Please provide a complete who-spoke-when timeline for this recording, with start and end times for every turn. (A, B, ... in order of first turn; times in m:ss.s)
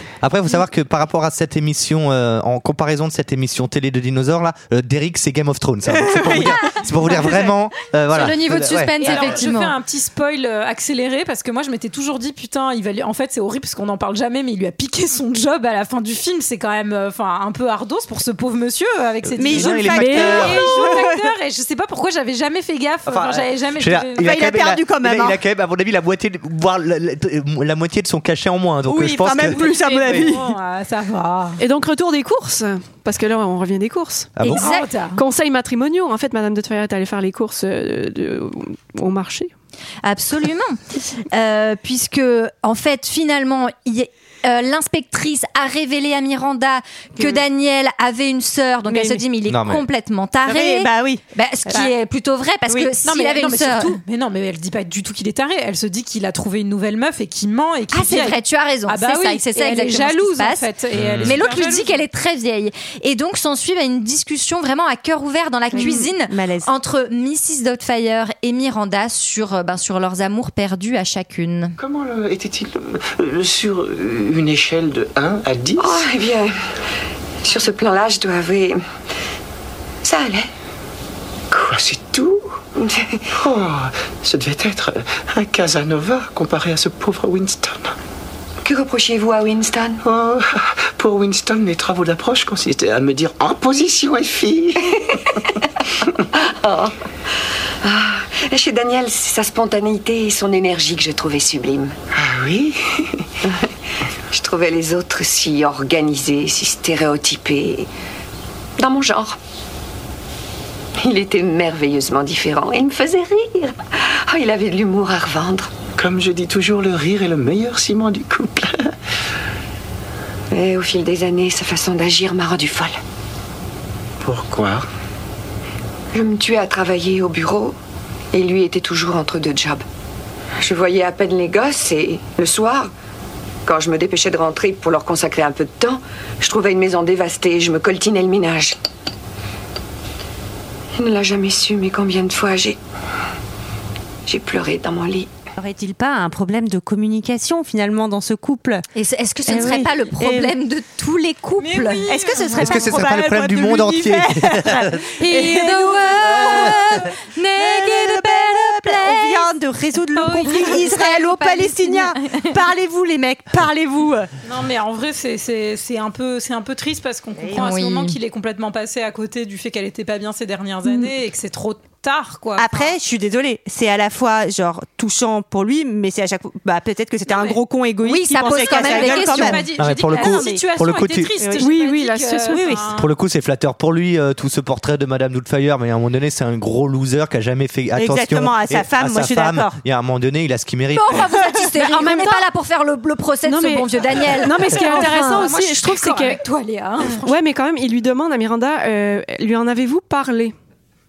0:00.2-0:09.2 A
0:05.9-0:07.5 B
0:08.1-0:09.7 C
0:09.0-0:24.3 D
0:19.4-0:21.2 B
0:19.4-0:20.7 A
0:20.0-0:20.4 E
0:23.0-0:30.3 A
0:24.2-0:25.4 B
0:28.8-0:30.5 B
0:29.4-0:31.6 D
0:31.6-0:34.3 E
0:34.4-0:34.7 A
0:34.4-0:34.9 C
0:34.5-0:35.2 D
0:35.1-0:39.5 E
0:40.0-0:54.0 C
0:48.9-0:49.2 B
0:49.4-0:49.8 A
0:50.4-0:51.9 B
0:53.0-1:02.0 D
0:57.9-1:00.7 C
1:00.9-1:01.4 A
1:01.2-1:11.8 C
1:05.7-1:06.7 B
1:11.8-1:16.0 F
1:15.9-1:16.5 G
1:17.5-1:18.8 G
1:20.0-1:20.4 G
1:21.5-1:22.4 F
1:23.4-1:27.9 F
1:28.6-1:30.0 G
1:30.0-1:34.8 F
1:36.6-1:36.9 G
1:37.8-1:41.9 G
1:42.2-1:42.8 F
1:44.3-1:47.8 G
1:48.8-1:49.4 G
1:51.0-1:53.7 G
1:54.3-1:55.7 G
1:56.0-1:58.9 F
2:00.5-2:03.0 G
2:04.2-2:04.8 F
2:06.1-2:07.7 G
2:08.3-2:09.8 G
2:10.6-2:12.9 G
2:13.7-2:18.7 G
2:21.0-2:22.8 G
2:24.3-2:25.3 G
2:25.6-2:28.8 B
2:28.9-2:32.0 C
2:29.4-2:30.5 B
2:31.6-2:33.0 D
2:32.1-2:36.9 B
2:32.5-2:35.0 A
2:35.2-2:39.5 C
2:36.3-2:36.7 A
2:37.5-2:44.3 B
2:40.2-2:42.6 C
2:40.2-2:40.5 D
2:44.4-2:52.9 D
2:47.5-2:48.2 C
2:52.6-3:00.6 B
2:57.3-2:57.6 D
2:58.0-2:59.6 C
2:58.4-3:03.1 D
2:59.8-3:01.3 A
3:01.4-3:01.6 B
3:01.6-3:02.8 E
3:02.5-3:02.8 B
3:02.9-3:11.4 A
3:08.0-3:09.8 B
3:10.9-3:15.3 C
3:11.8-3:12.5 E
3:13.4-3:16.4 E
3:14.7-3:17.4 D
3:17.1-3:20.5 E